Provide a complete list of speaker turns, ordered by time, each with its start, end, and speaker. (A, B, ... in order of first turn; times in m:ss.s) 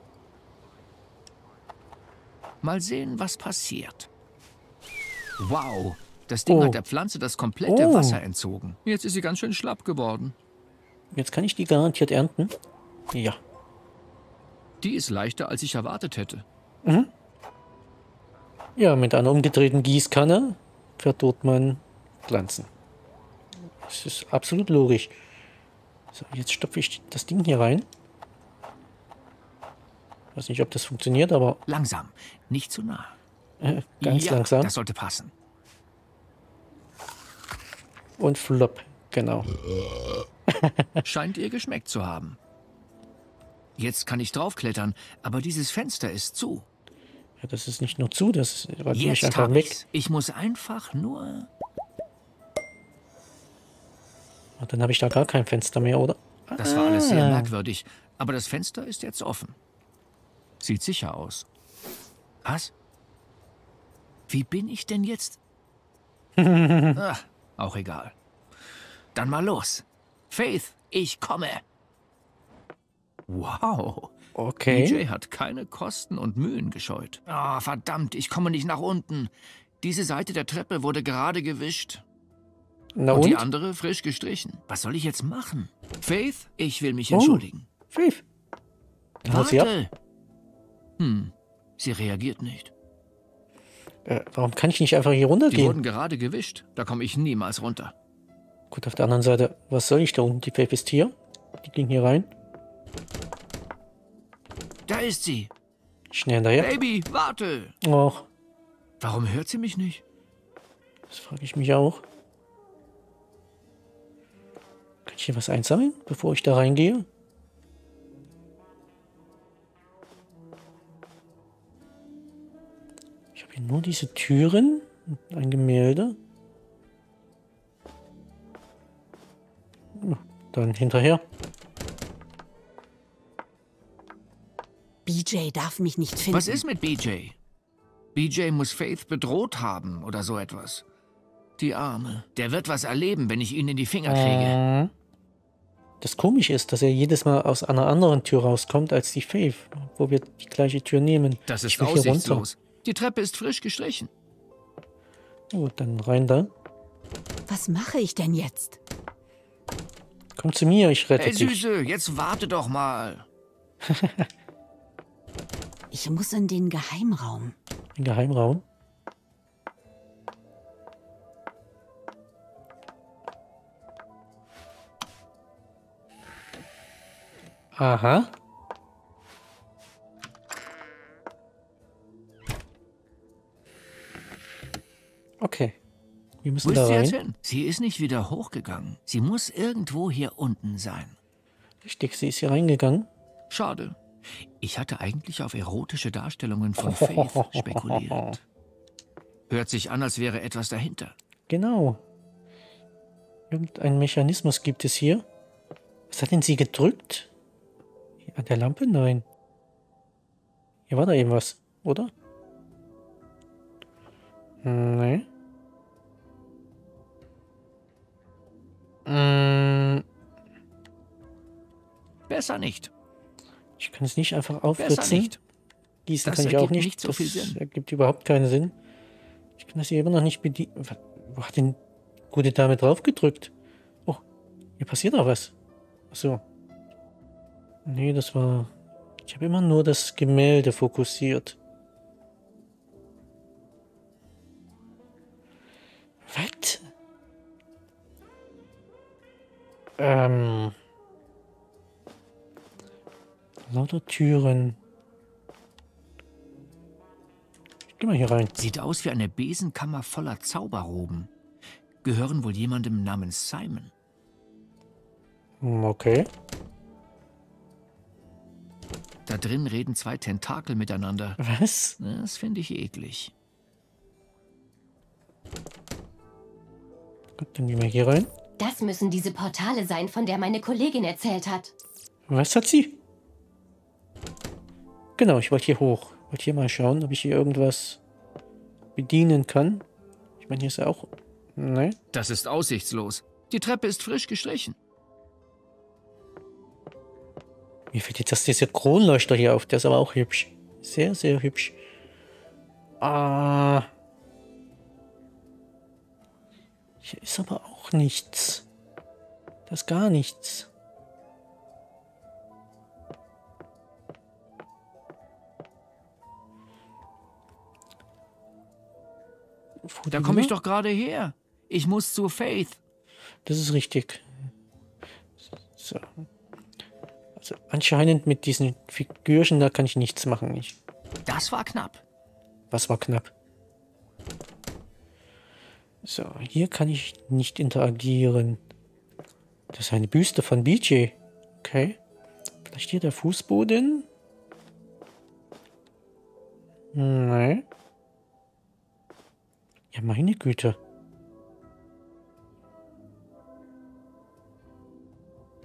0:02.6-0:04.1 A
0:05.4-0:10.4 A
0:06.5-0:06.8 B
0:07.6-0:08.2 B
0:11.1-0:12.5 B
0:13.1-0:13.4 B
0:14.8-0:16.4 A
0:16.8-0:17.1 B
0:18.8-0:22.7 B
0:23.8-0:25.1 B
0:26.1-0:27.9 B
0:30.3-0:31.6 B
0:31.7-0:33.2 A
0:33.6-0:34.7 B
0:34.0-0:35.3 A
0:38.2-0:39.6 B
0:40.5-0:41.0 B
0:41.0-0:42.4 A
0:43.8-0:46.6 A
0:47.4-0:49.8 B
0:48.9-0:51.5 A
0:54.6-0:57.5 B
0:56.6-0:59.6 A
1:00.6-1:01.5 A
1:02.4-1:02.7 A
1:04.3-1:05.4 A
1:06.4-1:07.0 B
1:07.0-1:08.1 A
1:09.1-1:11.6 A
1:13.3-1:14.1 A
1:14.4-1:15.0 B
1:14.7-1:22.0 A
1:23.0-1:23.4 B
1:23.1-1:27.7 A
1:27.1-1:28.2 B
1:29.2-1:29.9 A
1:29.2-1:29.7 B
1:31.0-1:32.7 A
1:34.1-1:35.8 B
1:35.5-1:37.9 A
1:38.7-1:42.3 B
1:44.9-1:45.5 A
1:46.1-1:46.7 B
1:46.6-1:47.7 A
1:47.8-1:48.3 B
1:49.0-1:50.0 A
1:51.1-1:52.0 B
1:55.0-1:57.1 B
2:03.3-2:06.2 B
2:09.9-2:11.2 B
2:15.0-2:16.6 C
2:16.3-2:17.4 A
2:18.1-2:20.8 A
2:21.6-2:24.6 A
2:24.0-2:24.9 B
2:26.0-2:32.4 B
2:31.5-2:34.1 A
2:35.5-2:36.5 B
2:37.5-2:38.8 C
2:40.4-2:41.6 B
2:41.2-2:43.3 A
2:43.9-2:44.3 B
2:45.9-2:47.5 C
2:48.0-2:48.6 B
2:57.8-2:58.3 B
3:05.4-3:05.8 B
3:06.4-3:07.2 B
3:06.6-3:11.2 A
3:11.8-3:13.1 B
3:13.5-3:18.4 A
3:16.8-3:18.2 B
3:19.5-3:21.1 A
3:21.5-3:22.0 B
3:23.5-3:25.2 B
3:26.1-3:27.3 B
3:28.3-3:29.2 B
3:30.9-3:32.1 B
3:34.6-3:35.3 B
3:39.1-3:40.0 B
3:42.3-3:42.9 A
3:43.8-3:45.3 B
3:44.8-3:45.4 A
3:46.0-3:48.7 B
3:46.2-3:47.6 A
3:49.6-3:51.8 B
3:52.3-3:53.5 B
3:54.8-3:55.5 B
3:56.1-3:56.4 B
3:57.8-3:58.7 B
3:59.2-4:01.6 B
4:06.3-4:06.8 B
4:10.0-4:10.7 B
4:13.7-4:14.8 B
4:18.0-4:18.5 B
4:18.6-4:21.3 A
4:22.0-4:23.9 A
4:25.6-4:26.3 B
4:29.2-4:31.4 A
4:31.4-4:32.0 B
4:32.0-4:33.3 A
4:37.4-4:38.3 B
4:38.6-4:41.7 D
4:42.3-4:43.0 B
4:45.2-4:48.0 B
4:49.0-4:49.8 B
4:50.4-4:52.0 B
4:52.1-4:54.8 A
4:57.9-5:01.8 B
5:03.0-5:03.9 B
5:07.0-5:08.6 B
5:09.7-5:10.7 B
5:19.8-5:20.5 B
5:20.1-5:22.8 A
5:23.4-5:24.2 B
5:25.8-5:26.2 B
5:27.4-5:30.8 B
5:31.2-5:32.0 A
5:32.7-5:33.3 B
5:36.0-5:38.6 B
5:39.7-5:42.0 B
5:42.6-5:44.0 B
5:46.9-5:47.6 B
5:49.9-5:50.8 B